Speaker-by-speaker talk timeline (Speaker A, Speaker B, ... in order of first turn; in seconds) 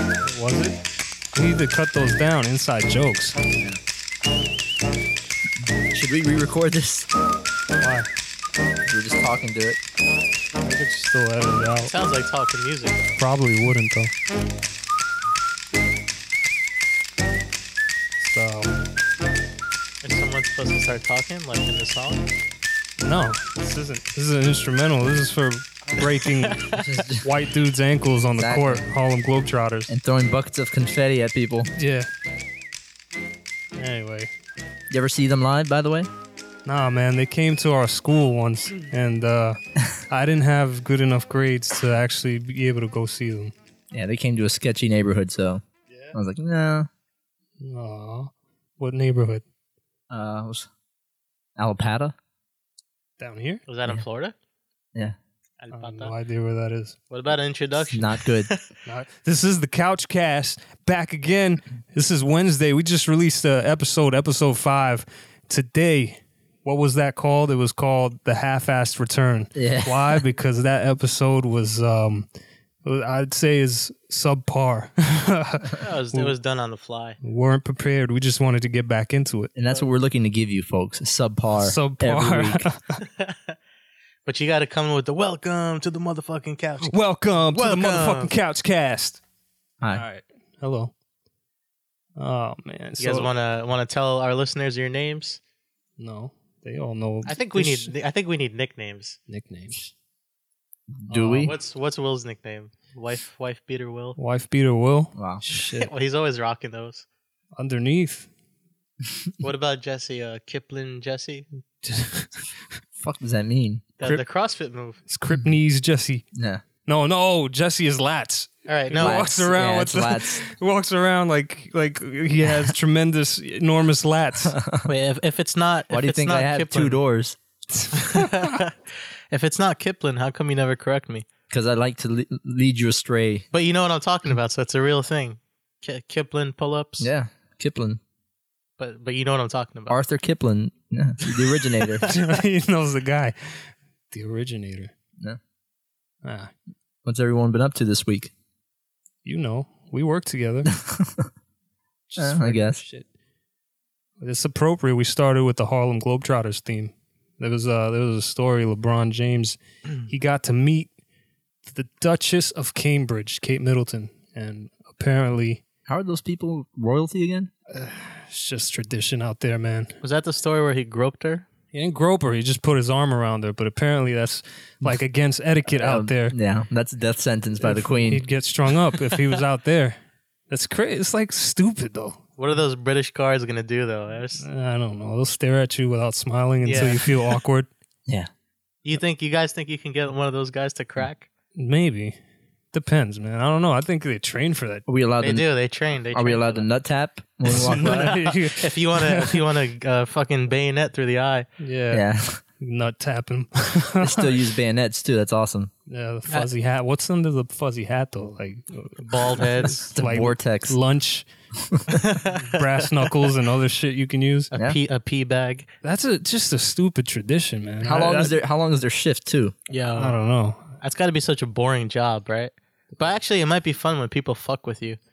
Speaker A: 0.2-0.8, 1.3-3.4, 7.8-8.1, 10.6-11.9, 13.2-14.1, 18.2-18.7, 23.0-26.6, 27.2-29.9, 31.7-32.1, 33.8-34.3, 36.7-43.5, 45.9-46.2, 47.6-49.4, 53.2-53.6, 55.7-57.0, 58.9-72.3, 72.8-76.3, 77.2-79.5, 81.6-83.0, 86.8-89.2, 89.9-90.9, 92.2-93.3, 96.0-97.9, 99.3-99.9, 101.1-101.5, 104.2-105.9, 107.6-108.3, 111.8-112.3, 115.1-116.2, 116.9-124.5, 127.8-128.4, 142.1-144.9, 146.2-146.5, 149.2-150.7, 152.1-153.1, 154.2-160.9, 161.7-165.6, 167.7-170.0, 171.7-176.4, 177.6-182.2, 184.4-187.7, 191.6-192.2, 192.7-194.9, 197.5-199.4, 201.6-202.1, 202.6-204.4, 205.9-211.3, 212.4-214.5, 215.8-218.3, 220.0-220.8
Speaker B: 5.9-7.1, 8.9-9.8, 26.8-27.2, 28.4-28.9, 29.9-31.7, 34.9-36.1, 43.9-46.9, 50.1-50.7, 51.6-52.1, 57.9-58.5, 69.5-70.2, 79.5-82.7, 100.9-101.5, 105.2-105.4, 113.0-113.8, 116.3-116.6, 119.0-120.5, 124.5-124.9, 125.9-127.4, 131.5-133.4, 137.0-138.0, 139.9-142.1, 147.1-148.3, 150.7-151.3, 152.2-152.8, 165.9-167.5, 175.7-178.2, 194.9-195.5, 196.1-198.2, 201.9-202.4, 204.0-205.7, 209.9-210.8, 217.8-219.6
Speaker C: 11.9-13.2, 20.0-22.2, 26.3-26.8, 53.7-54.4, 55.6-56.1, 57.1-58.6, 75.8-77.2, 83.2-83.5, 84.3-88.3, 93.0-95.4, 97.3-99.2, 101.3-104.2, 105.6-107.0, 109.4-111.5, 114.0-115.0, 118.7-119.2, 124.9-127.0, 128.1-128.8, 129.3-131.3, 133.5-137.1, 138.8-140.0, 170.0-171.5, 182.4-184.4, 186.6-187.1, 188.8-191.3, 195.2-196.7, 197.7-201.5, 209.0-209.8, 212.0-212.7, 214.5-215.7, 219.7-220.2, 220.8-225.0